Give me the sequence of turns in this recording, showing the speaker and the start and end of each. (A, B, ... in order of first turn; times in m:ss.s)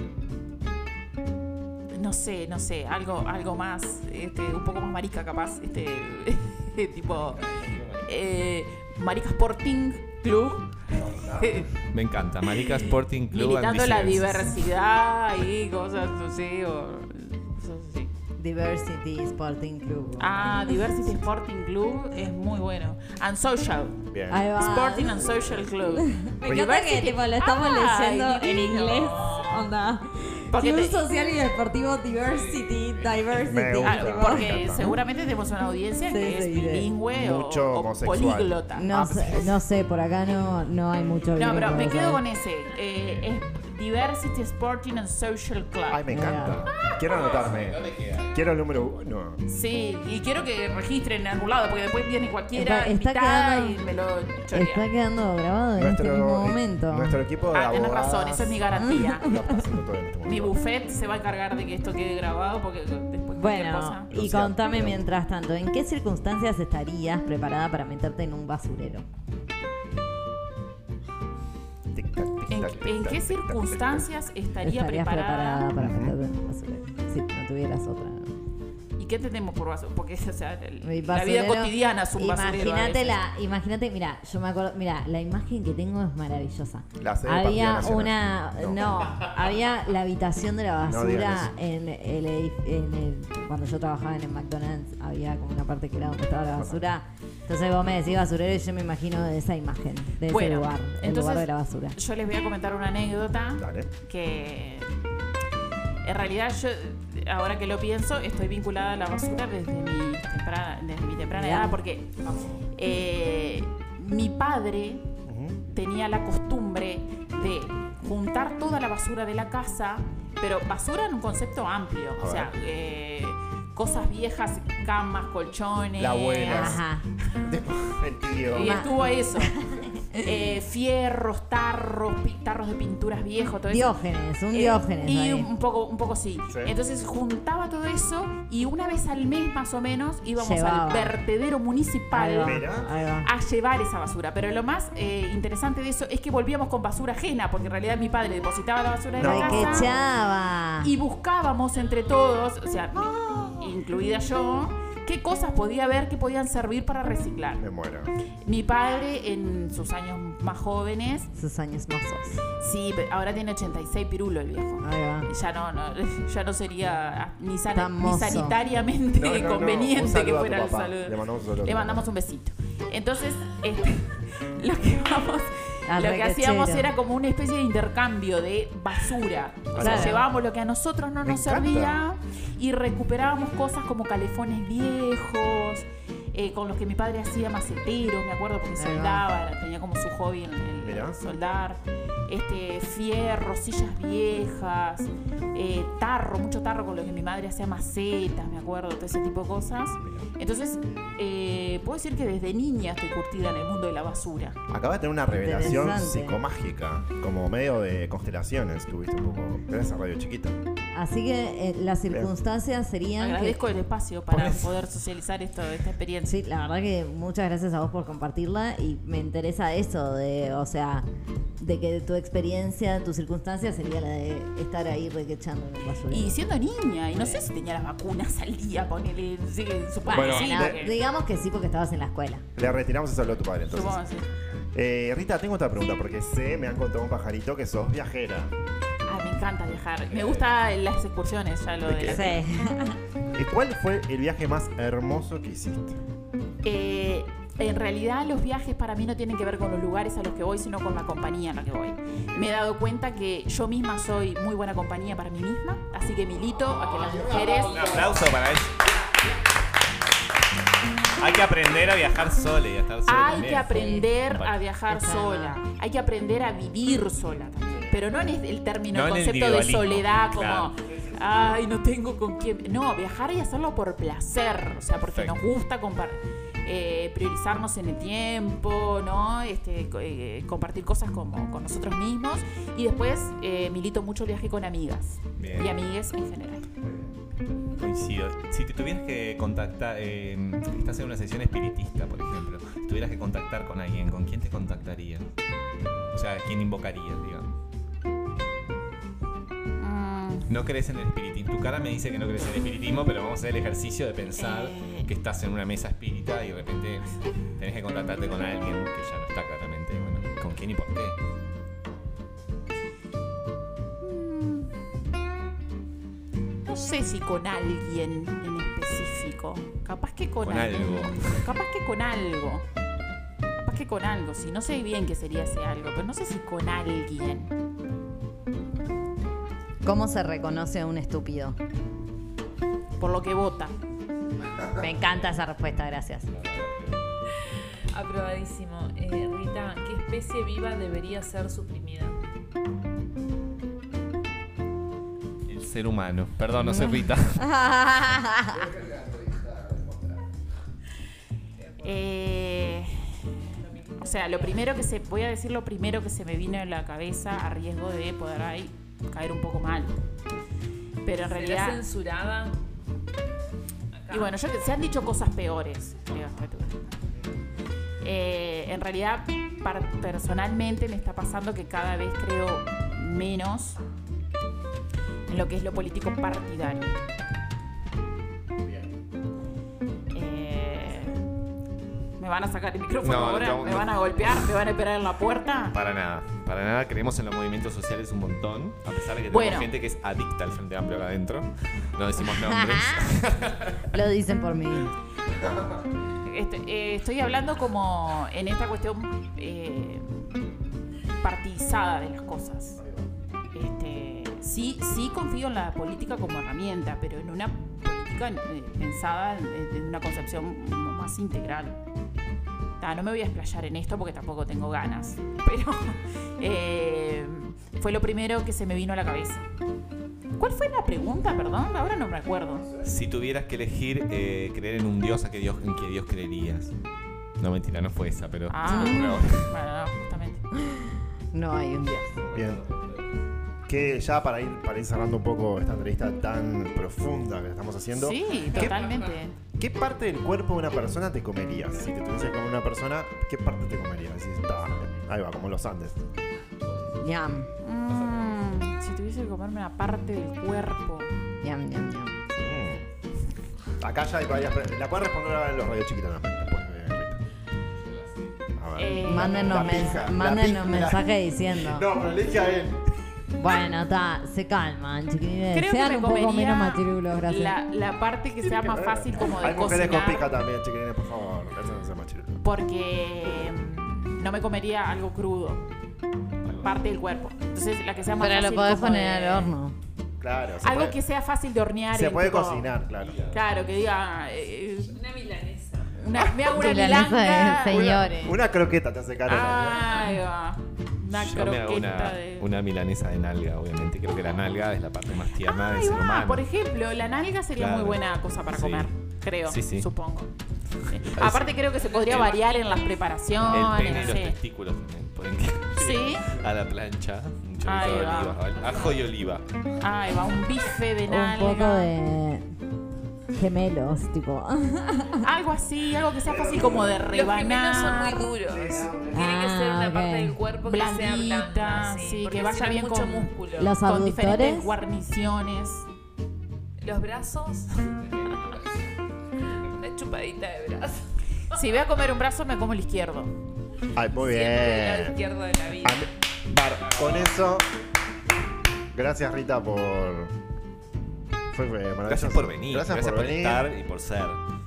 0:01.9-0:11.7 A
0:07.4-0:08.0 B
0:11.0-0:11.6 C
0:11.9-0:14.6 B
0:12.5-0:18.1 A
0:18.4-0:21.0 D
0:20.2-0:29.6 A
0:24.1-0:24.5 C
0:24.3-0:35.0 D
0:30.5-0:31.0 A
0:33.4-0:34.9 C
0:33.8-0:39.0 A
0:36.0-0:36.9 D
0:37.1-0:39.6 C
0:38.7-0:42.2 D
0:41.4-0:46.0 A
0:45.9-0:49.4 C
0:46.1-0:46.7 D
0:46.7-0:47.0 A
0:47.1-0:48.6 B
0:49.5-0:54.8 A
0:52.5-0:53.8 D
0:54.5-0:57.2 D
0:55.8-1:00.6 C
0:57.5-0:59.3 A
0:58.7-0:59.6 D
1:00.2-1:04.2 A
1:03.4-1:09.0 D
1:04.1-1:05.0 C
1:11.9-1:14.1 C
1:12.5-1:15.7 A
1:14.6-1:18.3 D
1:15.8-1:16.2 C
1:19.0-1:23.2 A
1:20.8-1:42.0 D
1:27.0-1:28.8 C
1:30.8-1:31.5 C
1:36.5-1:36.8 C
1:40.3-1:44.9 A
1:43.6-1:43.9 C
1:46.0-1:52.2 A
1:51.3-1:51.8 D
1:52.2-1:52.6 C
1:52.7-1:55.1 A
1:55.2-1:55.6 C
1:55.7-2:06.8 A
2:02.2-2:02.5 C
2:06.0-2:06.8 C
2:06.4-2:07.0 D
2:07.4-2:08.9 C
2:08.5-2:09.6 A
2:08.6-2:10.6 D
2:10.2-2:14.0 A
2:13.7-2:15.5 D
2:14.5-2:22.7 A
2:20.4-2:21.2 D
2:22.1-2:23.3 D
2:22.4-2:22.9 C
2:23.2-2:30.0 A
2:29.2-2:30.0 C
2:29.2-2:30.9 D
2:30.8-2:37.6 A
2:37.6-2:38.1 C
2:38.4-2:41.3 A
2:41.4-2:42.4 D
2:42.5-3:24.6 A
2:44.8-2:45.3 D
2:47.7-2:48.6 D
2:49.1-2:52.0 C
2:55.8-2:56.9 D
2:59.7-3:00.3 C
2:59.8-3:00.2 D
3:01.2-3:02.0 C
3:08.8-3:09.3 D
3:10.8-3:11.2 C
3:24.7-3:30.6 C
3:25.3-3:26.4 D
3:30.9-3:33.6 D
3:33.2-3:36.4 A
3:34.3-3:34.9 B
3:36.2-3:41.1 D
3:41.6-3:46.4 D
3:46.1-3:50.9 A
3:47.1-3:47.4 D
3:50.1-3:50.6 B
3:50.1-3:52.4 D
3:50.5-3:50.8 C
3:52.6-3:54.0 C
3:53.7-3:54.3 A
3:54.7-3:58.5 C
3:59.1-4:02.4 A
4:00.1-4:00.5 B
4:01.8-4:02.4 C
4:02.0-4:03.0 D
4:03.3-4:06.0 C
4:06.6-4:18.0 A
4:17.0-4:18.1 C
4:17.6-4:18.8 B
4:21.2-4:24.5 B
4:23.0-4:46.6 A
4:23.7-4:24.1 D
4:24.9-4:25.6 D
4:28.9-4:30.7 B
4:35.0-4:35.4 B
4:45.4-4:45.7 B
4:46.8-4:47.1 C
4:47.8-4:55.3 B
4:56.1-4:57.6 B
4:59.8-5:00.5 A
5:00.5-5:11.2 B
5:04.4-5:05.1 A
5:14.0-5:14.7 A
5:16.6-5:22.6 A
5:20.4-5:21.5 B
5:23.6-5:27.5 A
5:29.8-5:31.6 D
5:33.0-5:33.7 A
5:34.7-5:36.3 D
5:36.3-5:37.0 B
5:37.5-5:42.2 E
5:45.5-5:47.4 B
5:46.6-5:48.7 D
5:48.5-5:50.2 C
5:51.8-5:53.3 A
5:54.0-6:00.0 A
5:54.0-5:54.5 E
6:01.0-6:01.8 A
6:01.2-6:02.6 E
6:04.0-6:04.3 E
6:04.1-6:06.9 A
6:08.0-6:13.8 A
6:15.3-6:17.0 A
6:20.1-6:21.2 A
6:22.2-6:25.7 A
6:23.0-6:24.5 B
6:25.7-6:33.9 B
6:29.3-6:29.7 A
6:32.3-6:33.1 D
6:33.9-6:34.9 D
6:36.2-6:40.4 A
6:41.2-6:42.8 A
6:42.8-6:43.1 C
6:43.5-6:51.8 A
6:52.8-6:59.4 A
7:00.4-7:02.7 A
7:02.8-7:06.7 B
7:07.4-7:09.5 B
7:08.5-7:10.4 A
7:08.7-7:09.2 D
7:10.6-7:12.2 D
7:12.2-7:13.2 B
7:12.3-7:12.6 C
7:13.7-7:18.9 C
7:17.9-7:19.4 A
7:18.5-7:19.1 B
7:19.6-7:26.0 C
7:26.6-7:27.0 B
7:27.0-7:27.5 D
7:27.6-7:31.1 A
7:27.9-7:28.4 B
7:31.4-7:32.3 D
7:32.4-7:32.8 C
7:33.8-7:37.2 C
7:37.8-7:38.3 B
7:38.6-7:42.9 C
7:38.8-7:40.1 A
7:39.0-7:41.9 D
7:43.3-7:47.6 D
7:45.5-7:50.4 A
7:48.6-7:52.4 C
7:52.4-7:55.6 A
7:56.4-7:56.8 B
7:56.6-7:59.5 A
7:58.2-7:59.8 D
8:00.2-8:01.0 C
8:00.6-8:02.7 A
8:01.9-8:03.3 C
8:03.0-8:03.4 B
8:03.3-8:05.0 A
8:04.9-8:06.0 E
8:06.0-8:08.3 A
8:06.5-8:08.3 D
8:07.7-8:10.0 C
8:09.2-8:12.4 A
8:11.1-8:16.4 B
8:15.4-8:20.3 A
8:17.6-8:18.9 B
8:19.4-8:19.9 B
8:20.9-8:24.4 A
8:20.9-8:22.4 B
8:23.4-8:29.4 B
8:25.8-8:26.3 A
8:27.6-8:28.4 A
8:29.8-8:31.9 A
8:31.0-8:32.4 D
8:33.3-8:35.3 D
8:35.2-8:38.3 A
8:36.3-8:37.1 C
8:37.0-8:43.7 E
8:38.4-8:39.2 C
8:39.1-8:40.4 D
8:40.6-8:45.8 A
8:43.6-8:44.7 D
8:46.8-8:48.5 E
8:48.2-8:48.8 B
8:49.5-8:51.5 E
8:51.5-8:53.3 A
8:54.0-8:55.2 C
8:54.1-8:56.1 E
8:55.8-8:57.7 C
8:56.9-8:57.3 B
8:58.9-9:00.3 C
9:01.5-9:03.7 C
9:02.1-9:04.4 B